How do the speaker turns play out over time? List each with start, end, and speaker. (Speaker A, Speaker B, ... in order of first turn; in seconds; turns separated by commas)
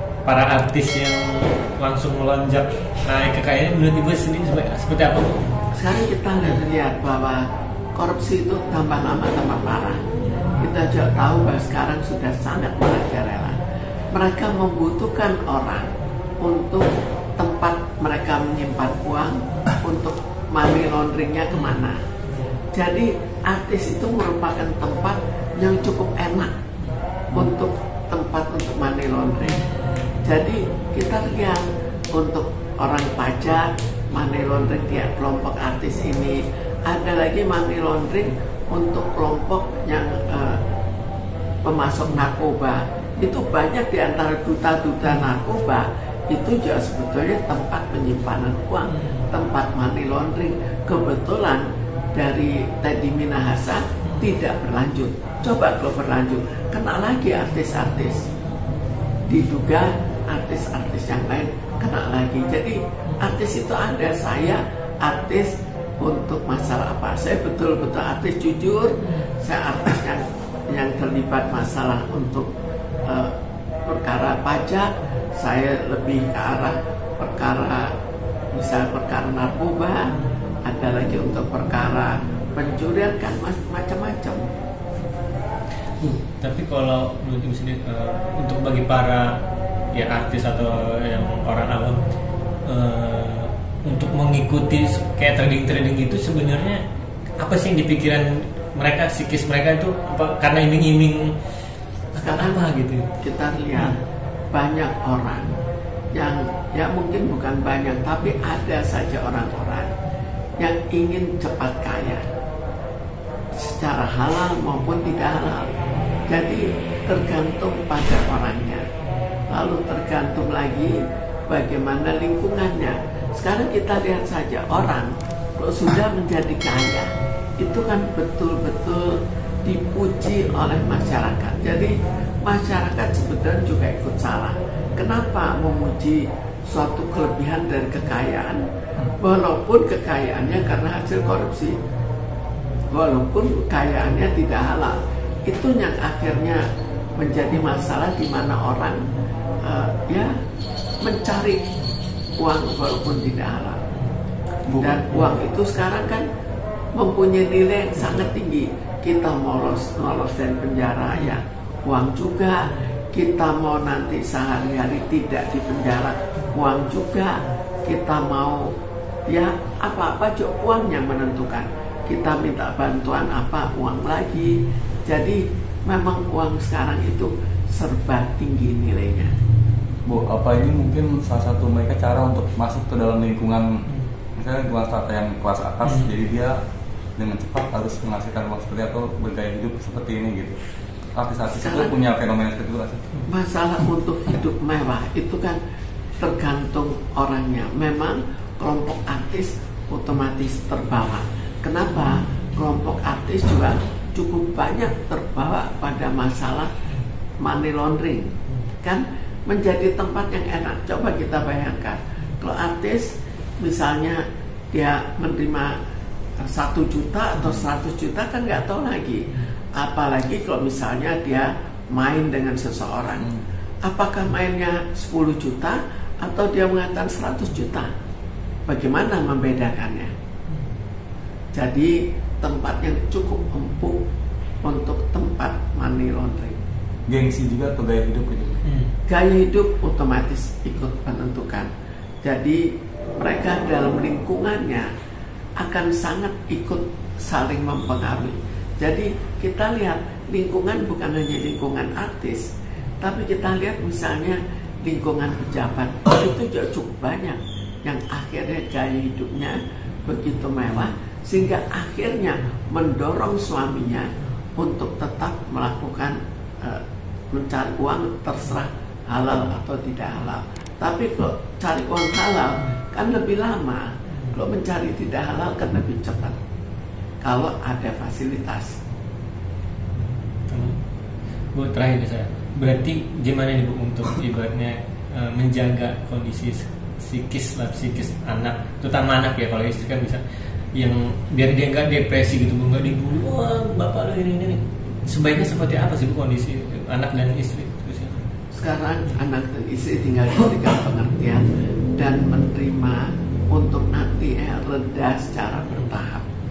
Speaker A: 0.2-5.8, Speaker B: 5.7-10.0, Speaker A: 10.2-10.6, Speaker B: 10.6-22.0, Speaker A: 21.5-22.6, Speaker B: 22.7-26.6, Speaker B: 27.3-29.7, Speaker A: 29.4-30.2, Speaker B: 30.2-40.6, Speaker B: 41.6-58.2, Speaker A: 49.0-49.2, Speaker B: 59.3-72.5, Speaker B: 73.0-73.3, Speaker B: 73.8-77.9, Speaker B: 78.5-84.5, Speaker A: 86.0-92.0, Speaker A: 92.6-96.8, Speaker A: 97.4-101.4, Speaker A: 102.1-103.1, Speaker B: 102.2-102.7, Speaker B: 103.2-104.0, Speaker B: 104.5-105.6, Speaker B: 106.1-109.9, Speaker B: 110.6-112.2, Speaker B: 113.5-115.7, Speaker B: 116.3-118.8, Speaker B: 119.5-141.8, Speaker B: 142.9-146.7, Speaker B: 147.2-149.0, Speaker B: 149.6-150.3, Speaker B: 151.0-151.6, Speaker B: 152.4-153.8, Speaker B: 154.7-156.2, Speaker B: 156.9-168.7, Speaker B: 169.3-179.4, Speaker C: 180.1-183.8, Speaker C: 184.4-186.6, Speaker C: 187.2-190.6, Speaker C: 191.2-193.1, Speaker B: 191.6-191.9, Speaker B: 193.2-195.6, Speaker B: 196.2-206.7, Speaker B: 207.4-215.8, Speaker B: 216.4-227.9, Speaker B: 228.7-230.1, Speaker B: 231.5-234.0, Speaker B: 234.6-236.6, Speaker C: 237.1-238.6, Speaker A: 238.7-238.9, Speaker B: 239.1-241.7, Speaker B: 242.2-244.9, Speaker B: 245.6-252.5, Speaker B: 253.0-276.4, Speaker B: 277.2-278.8, Speaker A: 280.0-280.8, Speaker A: 281.5-290.2, Speaker A: 290.7-298.2, Speaker B: 298.5-306.2